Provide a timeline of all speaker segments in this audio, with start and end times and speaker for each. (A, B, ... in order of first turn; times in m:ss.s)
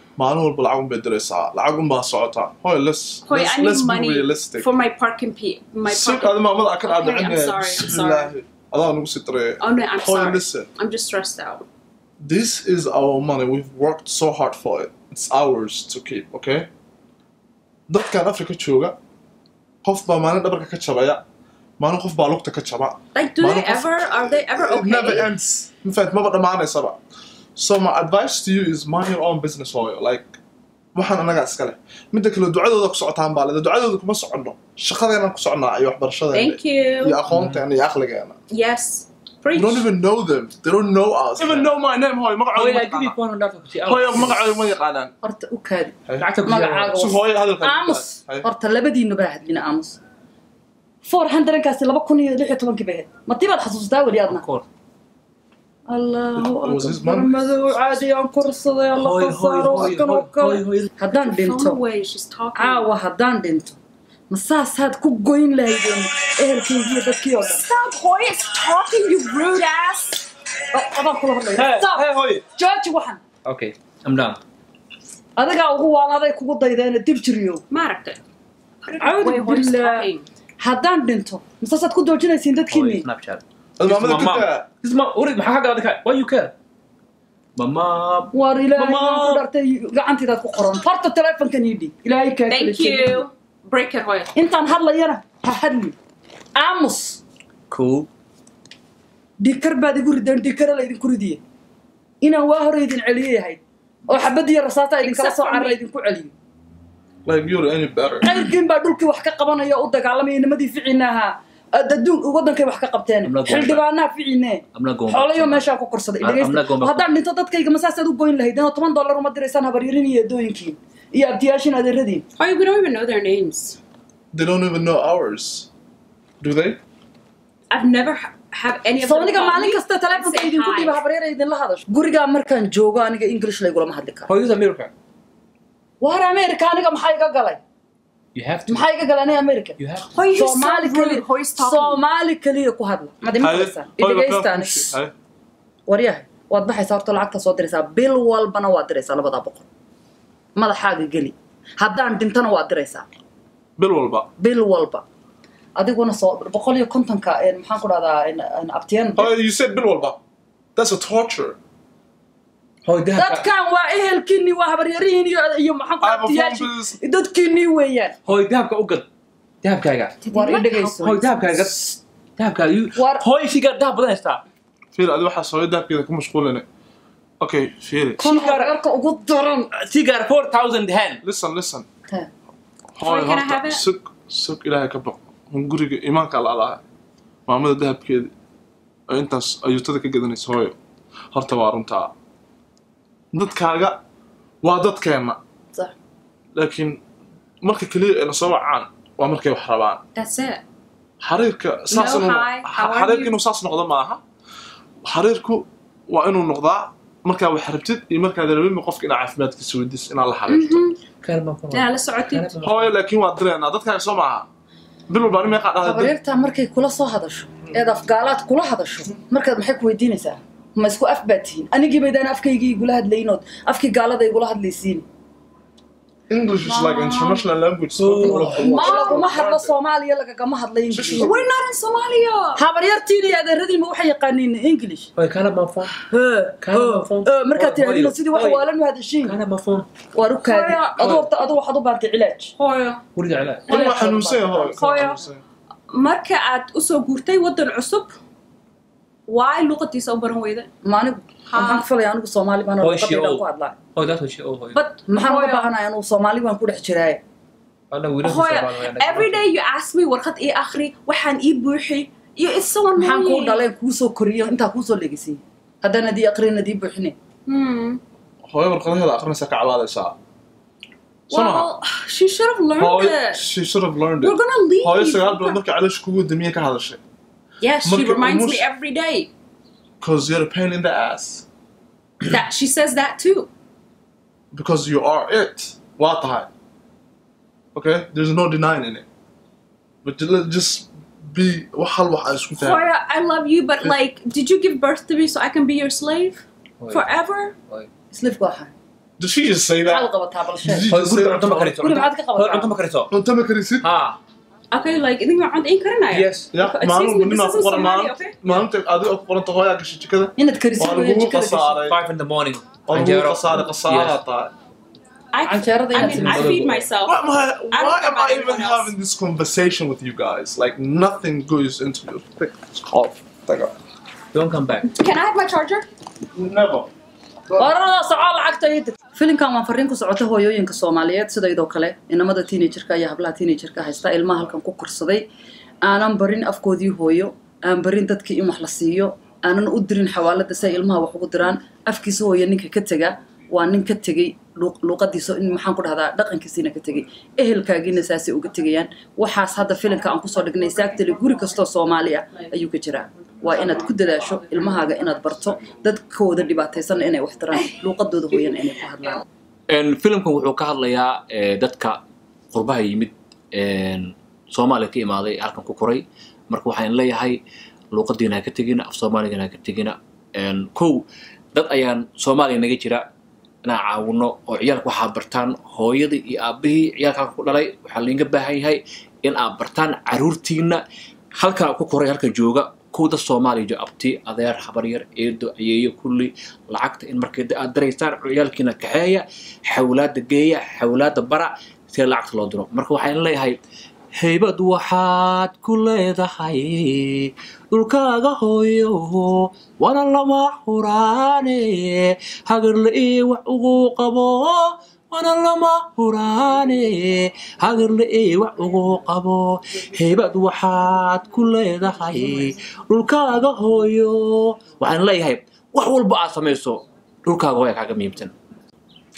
0:00.2-0:04.7 A
0:03.2-0:08.3 B
0:05.8-0:10.7 A
0:09.6-0:11.6 B
0:12.2-0:16.7 A
0:17.9-0:19.0 A
0:19.8-0:21.2 A
0:21.8-0:27.0 A
0:23.1-0:25.3 B
0:27.6-0:30.4 A
0:30.9-0:38.4 A
0:36.3-0:37.2 B
0:37.3-0:37.6 C
0:38.5-0:39.9 B
0:39.5-0:43.2 A
0:41.4-0:41.7 C
0:42.5-0:44.6 C
0:43.8-0:45.1 A
0:45.2-0:50.0 D
0:46.1-0:46.3 A
0:46.2-0:47.0 C
0:46.9-0:48.5 A
0:51.0-0:54.4 D
0:54.3-0:54.6 C
0:55.9-1:01.8 D
0:56.4-0:57.9 A
0:58.9-1:00.9 C
1:01.1-1:02.9 B
1:02.5-1:03.8 D
1:04.3-1:07.6 D
1:07.6-1:10.2 B
1:10.7-1:13.2 D
1:11.5-1:12.4 C
1:13.4-1:14.4 C
1:15.4-1:17.6 D
1:17.7-1:18.2 B
1:18.8-1:20.2 B
1:19.0-1:20.1 D
1:20.6-1:23.1 D
1:22.7-1:26.5 C
1:23.8-1:24.7 A
1:27.6-1:29.4 C
1:28.3-1:33.2 D
1:32.5-1:34.3 B
1:34.3-1:36.0 D
1:36.5-1:37.2 D
1:37.7-1:38.1 C
1:39.4-1:41.4 D
1:42.2-1:46.3 D
1:45.0-1:45.8 B
1:47.2-1:48.3 A
1:48.2-2:02.2 D
1:53.2-1:53.8 C
1:54.7-1:57.1 C
2:02.4-2:03.8 B
2:04.3-2:05.7 A
2:06.4-2:06.8 A
2:07.7-2:11.0 B
2:09.0-2:14.3 D
2:14.3-2:14.9 C
2:16.0-2:17.6 D
2:18.3-2:18.9 C
2:18.7-2:19.8 D
2:19.8-2:20.1 C
2:20.1-2:22.0 B
2:20.3-2:24.9 D
2:23.4-2:25.1 A
2:25.9-2:29.6 D
2:30.5-2:33.1 D
2:33.8-2:34.3 A
2:34.4-2:35.0 D
2:35.8-2:39.3 D
2:39.1-2:40.2 A
2:40.8-2:41.6 A
2:42.8-2:43.5 C
2:43.1-2:48.2 D
2:46.0-2:47.0 A
2:48.2-2:49.1 C
2:49.6-2:50.2 C
2:50.2-2:50.8 B
2:50.3-2:51.3 D
2:50.8-2:54.4 C
2:52.9-2:53.3 D
2:54.9-2:56.7 A
2:57.4-2:58.2 A
2:58.2-2:59.7 D
2:58.2-2:58.8 C
2:59.7-3:01.2 C
3:01.2-3:01.9 A
3:02.9-3:06.8 A
3:03.0-3:03.8 B
3:07.5-3:08.3 A
3:09.1-3:10.8 A
3:11.3-3:12.1 A
3:13.3-3:14.0 A
3:14.6-3:15.4 A
3:16.5-3:17.0 A
3:17.6-3:20.0 A
3:20.1-3:20.6 B
3:21.2-3:24.2 A
3:21.9-3:23.3 B
3:25.0-3:30.8 A
3:30.5-3:31.0 B
3:31.2-3:32.9 C
3:31.7-3:32.6 B
3:32.6-3:34.5 A
3:35.1-3:36.1 A
3:35.8-3:45.0 D
3:46.3-3:49.7 A
3:46.6-3:47.4 D
3:47.9-3:49.3 C
3:48.2-3:51.3 D
3:50.9-3:51.5 A
3:51.2-3:52.6 B
3:52.6-3:55.1 D
3:55.2-3:56.0 C
3:56.0-3:59.4 D
3:56.6-3:58.7 C
3:59.2-3:59.8 C
4:00.1-4:02.5 D
4:00.4-4:01.1 B
4:01.0-4:01.3 C
4:02.6-4:03.0 B
4:03.1-4:03.6 C
4:03.7-4:05.1 D
4:03.7-4:05.4 A
4:04.8-4:05.2 B
4:05.9-4:08.2 B
4:09.3-4:10.7 B
4:10.8-4:13.8 D
4:11.5-4:11.9 B
4:12.8-4:13.4 C
4:13.9-4:14.8 C
4:14.7-4:15.7 B
4:15.1-4:17.2 D
4:17.9-4:19.5 C
4:18.2-4:23.6 B
4:23.0-4:27.1 D
4:27.5-4:28.0 B
4:28.4-4:30.2 A
4:31.3-4:31.7 A
4:31.3-4:33.4 B
4:32.8-4:37.0 A
4:34.2-4:35.6 B
4:37.6-4:39.3 B
4:37.8-4:38.7 A
4:40.0-4:41.4 A
4:42.2-4:43.5 B
4:44.5-4:46.5 A
4:47.7-4:49.0 A
4:50.0-4:52.8 A
4:52.6-4:57.5 B
4:56.8-4:57.9 C
4:58.1-4:58.7 D
4:59.2-5:00.1 A
4:59.8-5:00.9 D
5:00.6-5:01.8 A
5:00.9-5:03.1 C
5:01.8-5:02.7 D
5:03.1-5:03.8 A
5:03.8-5:04.2 C
5:04.7-5:08.4 B
5:06.1-5:06.5 C
5:06.5-5:12.0 A
5:10.4-5:11.8 D
5:11.8-5:14.2 C
5:12.8-5:14.5 A
5:15.3-5:18.9 B
5:15.4-5:16.7 D
5:15.9-5:16.9 C
5:17.0-5:23.7 A
5:24.3-5:24.9 C
5:24.8-5:25.9 B
5:26.3-5:26.9 A
5:27.6-5:35.3 D
5:35.8-5:59.2 D
5:59.7-6:02.0 C
6:02.5-6:07.4 C
6:07.9-6:13.1 C
6:13.6-6:20.8 C
6:21.4-6:33.6 C
6:34.2-6:58.3 C